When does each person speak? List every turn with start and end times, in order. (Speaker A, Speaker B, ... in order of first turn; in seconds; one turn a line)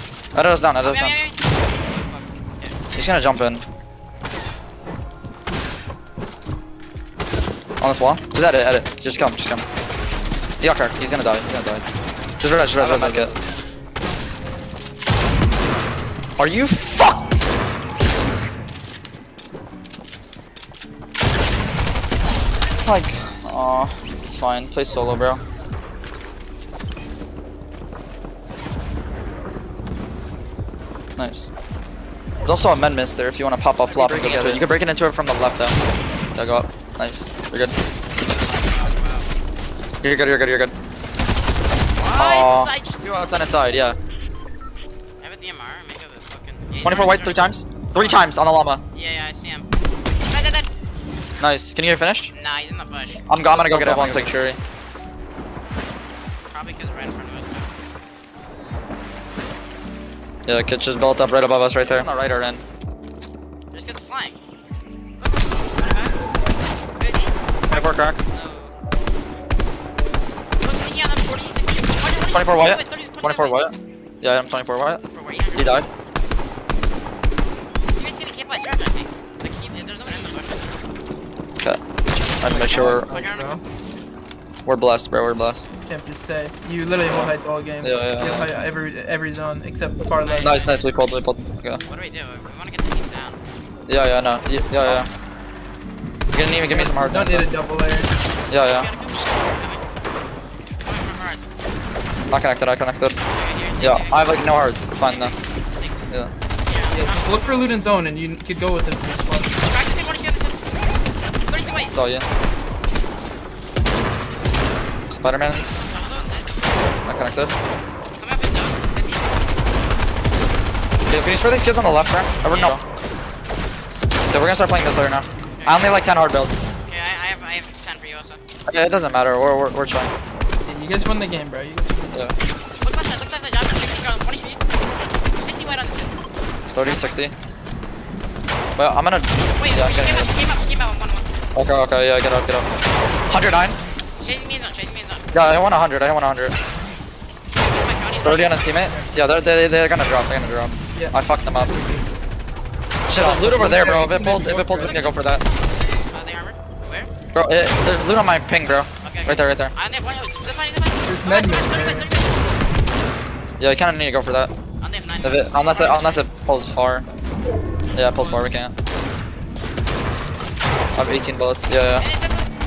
Speaker A: 0.3-1.2
Speaker B: 0.8-2.8
Speaker A: 2.9-3.6
Speaker A: 7.8-9.7
Speaker A: 10.6-11.8
Speaker A: 12.4-13.3
Speaker B: 12.8-13.4
Speaker A: 16.4-17.2
Speaker A: 22.8-25.4
Speaker A: 31.2-31.5
Speaker A: 32.4-35.8
Speaker B: 33.9-34.7
Speaker A: 36.4-37.8
Speaker B: 38.2-39.3
Speaker A: 40.0-40.8
Speaker B: 42.0-43.1
Speaker A: 42.1-44.0
Speaker B: 45.2-48.3
Speaker A: 46.8-48.8
Speaker B: 48.9-49.7
Speaker B: 50.3-50.7
Speaker A: 51.4-52.3
Speaker B: 52.3-54.4
Speaker A: 53.3-54.6
Speaker B: 56.5-57.7
Speaker A: 60.4-62.6
Speaker B: 61.8-62.4
Speaker B: 63.7-64.4
Speaker B: 65.2-66.1
Speaker B: 66.9-67.3
Speaker A: 67.7-68.2
Speaker B: 68.3-68.7
Speaker B: 70.6-73.6
Speaker A: 72.3-75.0
Speaker B: 75.1-75.8
Speaker A: 75.5-75.9
Speaker B: 77.8-80.8
Speaker A: 82.4-83.1
Speaker C: 82.4-83.6
Speaker B: 82.7-83.6
Speaker A: 84.7-85.7
Speaker C: 85.8-90.6
Speaker A: 87.1-88.5
Speaker B: 90.2-90.8
Speaker A: 90.4-91.8
Speaker B: 91.9-93.4
Speaker A: 93.9-95.1
Speaker A: 96.3-97.5
Speaker C: 96.7-98.1
Speaker A: 98.5-98.9
Speaker B: 98.6-99.8
Speaker B: 100.8-101.5
Speaker A: 102.3-103.2
Speaker B: 103.3-106.0
Speaker A: 103.8-105.4
Speaker B: 106.6-107.7
Speaker C: 106.9-109.6
Speaker B: 109.5-110.6
Speaker B: 111.4-111.9
Speaker A: 111.9-112.2
Speaker A: 115.1-115.9
Speaker B: 115.6-116.7
Speaker A: 117.1-117.5
Speaker B: 118.1-119.3
Speaker A: 121.1-122.8
Speaker B: 122.5-122.8
Speaker A: 124.3-126.7
Speaker B: 125.5-126.0
Speaker B: 126.8-128.4
Speaker A: 128.7-130.1
Speaker C: 130.6-132.2
Speaker B: 132.8-134.6
Speaker B: 135.3-136.2
Speaker A: 136.7-137.3
Speaker B: 136.8-137.2
Speaker A: 138.8-140.3
Speaker B: 139.5-141.3
Speaker A: 141.6-142.7
Speaker A: 143.3-143.8
Speaker B: 144.2-145.5
Speaker A: 145.3-146.6
Speaker B: 147.6-148.6
Speaker A: 148.2-151.7
Speaker C: 148.8-149.1
Speaker C: 150.9-152.1
Speaker A: 153.1-155.4
Speaker C: 153.1-155.1
Speaker B: 154.7-155.5
Speaker B: 156.0-157.1
Speaker A: 157.3-159.7
Speaker B: 159.0-162.4
Speaker C: 161.1-162.1
Speaker A: 163.6-164.5
Speaker B: 164.8-166.2
Speaker A: 165.2-167.1
Speaker A: 167.9-168.7
Speaker C: 168.1-168.5
Speaker A: 170.9-172.1
Speaker B: 172.0-172.5